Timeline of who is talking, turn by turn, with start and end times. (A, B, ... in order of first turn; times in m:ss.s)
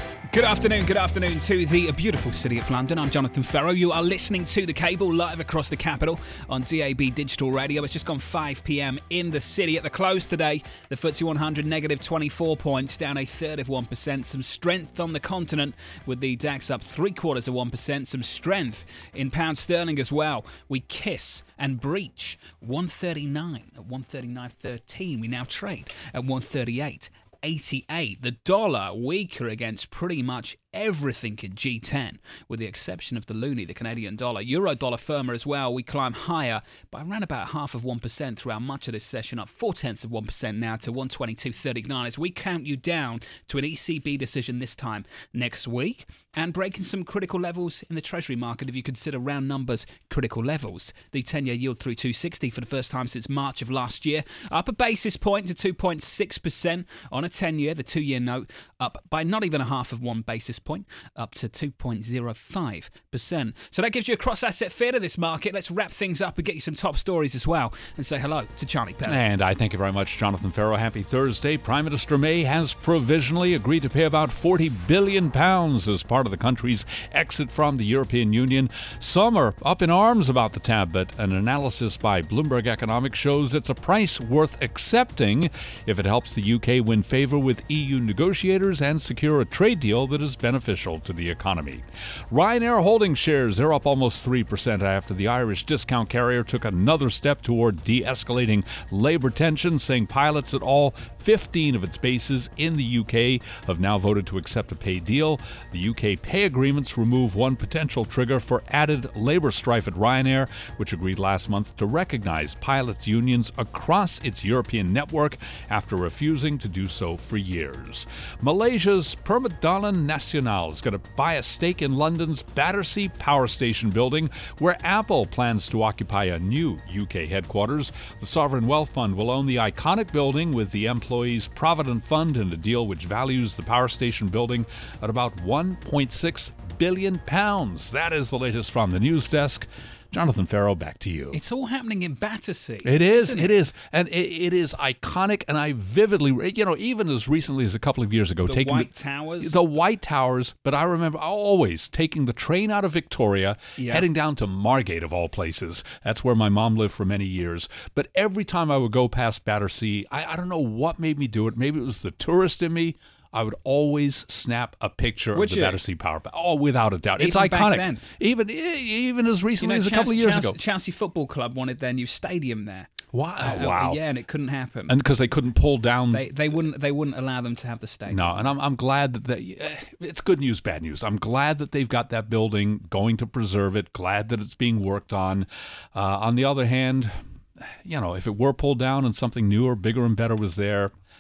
0:00.3-1:09.2 A
1:09.1-2:21.4 B
2:21.3-2:23.5 A
2:22.8-2:28.9 B
2:28.5-2:29.6 A
2:29.4-2:50.6 B
2:33.8-2:34.0 A
2:45.3-2:45.8 A
2:47.2-2:48.0 A
2:49.6-2:55.0 A
2:53.1-2:54.0 B
2:54.9-2:56.3 B
2:56.1-2:58.4 A
2:58.1-3:07.2 B
3:07.8-3:10.9 B